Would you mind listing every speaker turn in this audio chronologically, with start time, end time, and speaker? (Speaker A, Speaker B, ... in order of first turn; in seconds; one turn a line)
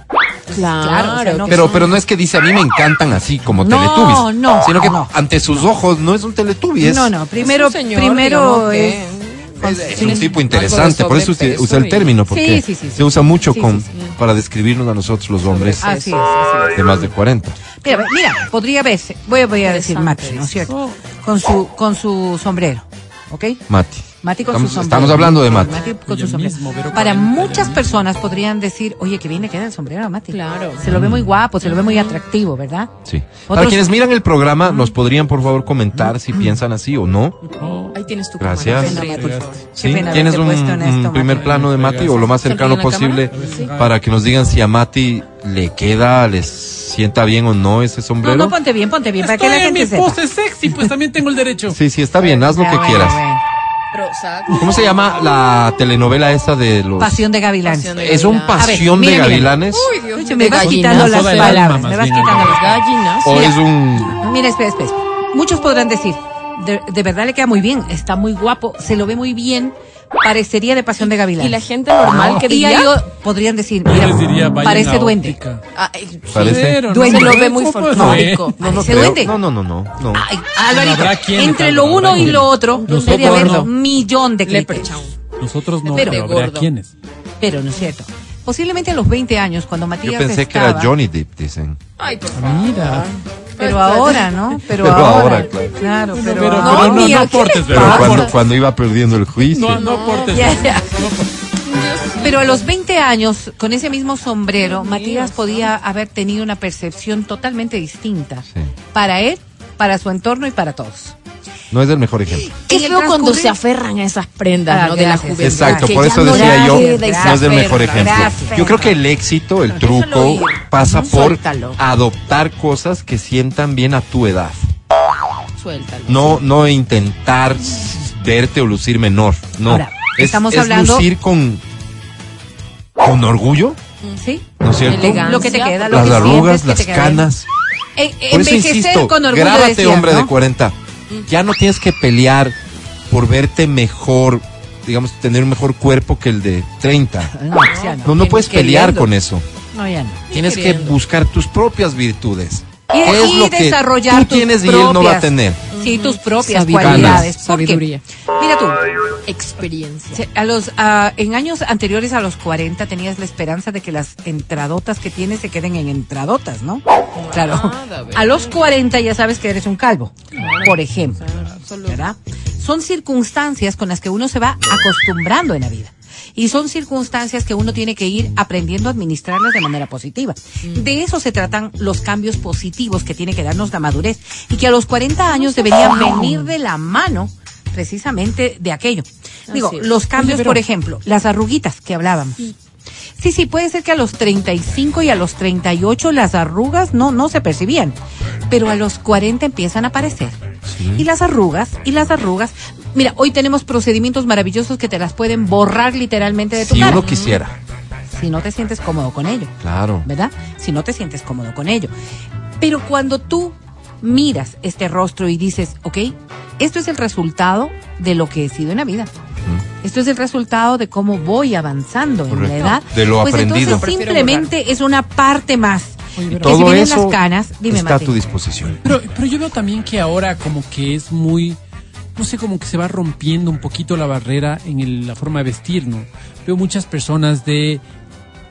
Speaker A: 0.5-1.9
Speaker B: 0.5-1.8
Speaker C: 1.5-7.1
Speaker A: 3.6-5.1
Speaker A: 6.8-9.0
Speaker B: 7.3-12.2
Speaker C: 9.6-15.8
Speaker A: 9.9-10.2
Speaker A: 12.3-13.9
Speaker B: 15.4-16.9
Speaker A: 15.8-16.7
Speaker C: 16.7-17.6
Speaker A: 17.8-23.6
Speaker B: 19.6-20.6
Speaker D: 20.7-21.0
Speaker C: 23.7-25.8
Speaker A: 24.2-32.9
Speaker D: 26.1-27.9
Speaker B: 30.3-30.9
Speaker C: 30.9-31.3
Speaker B: 31.7-32.2
Speaker C: 33.0-37.4
Speaker A: 33.5-33.9
Speaker A: 36.3-36.6
Speaker D: 37.6-38.0
Speaker B: 37.9-39.7
Speaker C: 38.4-39.0
Speaker D: 38.6-39.6
Speaker A: 38.8-41.4
Speaker C: 39.8-48.6
Speaker D: 41.3-42.3
Speaker B: 42.3-43.7
Speaker D: 43.3-43.9
Speaker A: 48.2-50.2
Speaker D: 49.2-51.8
Speaker C: 51.7-53.2
Speaker A: 52.2-53.4
Speaker B: 53.9-55.1
Speaker C: 54.5-57.3
Speaker A: 57.0-59.6
Speaker B: 57.6-61.8
Speaker C: 58.0-59.9
Speaker A: 60.1-62.6
Speaker D: 60.5-62.9
Speaker B: 62.3-63.6
Speaker C: 63.2-64.2
Speaker A: 64.1-75.4
Speaker B: 71.3-72.9
Speaker D: 72.1-72.4
Speaker D: 73.8-75.6
Speaker B: 75.7-79.0
Speaker C: 76.3-76.8
Speaker D: 76.3-78.5
Speaker A: 77.1-77.3
Speaker A: 78.0-79.4
Speaker C: 78.6-80.2
Speaker A: 80.1-85.0
Speaker D: 80.7-83.7
Speaker B: 82.7-83.7
Speaker B: 84.4-85.2
Speaker D: 85.4-86.9
Speaker B: 85.8-86.7
Speaker A: 86.0-86.3
Speaker A: 87.4-90.9
Speaker C: 90.0-91.8
Speaker B: 92.0-94.3
Speaker D: 92.3-93.1
Speaker A: 93.6-98.3
Speaker C: 94.8-95.7
Speaker D: 96.1-98.3
Speaker B: 96.5-98.2
Speaker C: 97.7-99.8
Speaker D: 99.5-101.2
Speaker B: 99.7-100.9
Speaker A: 100.4-100.9
Speaker B: 101.7-102.6
Speaker A: 102.2-111.1
Speaker B: 104.5-105.7
Speaker C: 111.7-112.5
Speaker B: 112.5-119.0
Speaker A: 112.7-113.6
Speaker A: 114.7-118.9
Speaker C: 115.4-124.7
Speaker B: 119.7-121.8
Speaker B: 125.5-126.4
Speaker C: 126.1-131.6
Speaker A: 129.7-131.1
Speaker C: 133.0-133.8
Speaker A: 134.2-137.3
Speaker C: 134.6-137.4
Speaker B: 134.8-136.7
Speaker A: 138.0-140.3
Speaker C: 138.3-140.8
Speaker C: 141.3-142.6
Speaker C: 143.1-147.3
Speaker A: 147.3-148.3
Speaker B: 147.6-149.1
Speaker C: 148.0-149.4
Speaker A: 149.7-150.2
Speaker B: 150.3-151.0
Speaker C: 150.3-155.7
Speaker A: 152.9-158.8
Speaker B: 155.7-158.0
Speaker C: 156.7-157.3
Speaker B: 159.3-160.2
Speaker A: 160.1-171.2
Speaker B: 167.2-168.8
Speaker B: 170.3-172.0
Speaker A: 171.8-192.4
Speaker B: 180.6-180.9
Speaker B: 185.3-186.5
Speaker B: 189.5-189.9
Speaker D: 190.2-190.6
Speaker A: 193.2-198.0
Speaker A: 198.5-200.4
Speaker C: 200.7-201.1
Speaker A: 200.9-207.0
Speaker C: 206.6-207.6
Speaker B: 206.7-207.4
Speaker A: 208.1-211.9
Speaker C: 209.6-210.1
Speaker A: 212.6-219.1
Speaker A: 219.8-228.2
Speaker C: 222.3-223.9
Speaker B: 223.6-224.5
Speaker D: 226.2-226.8
Speaker C: 226.3-228.8
Speaker D: 228.8-231.6
Speaker D: 232.2-237.8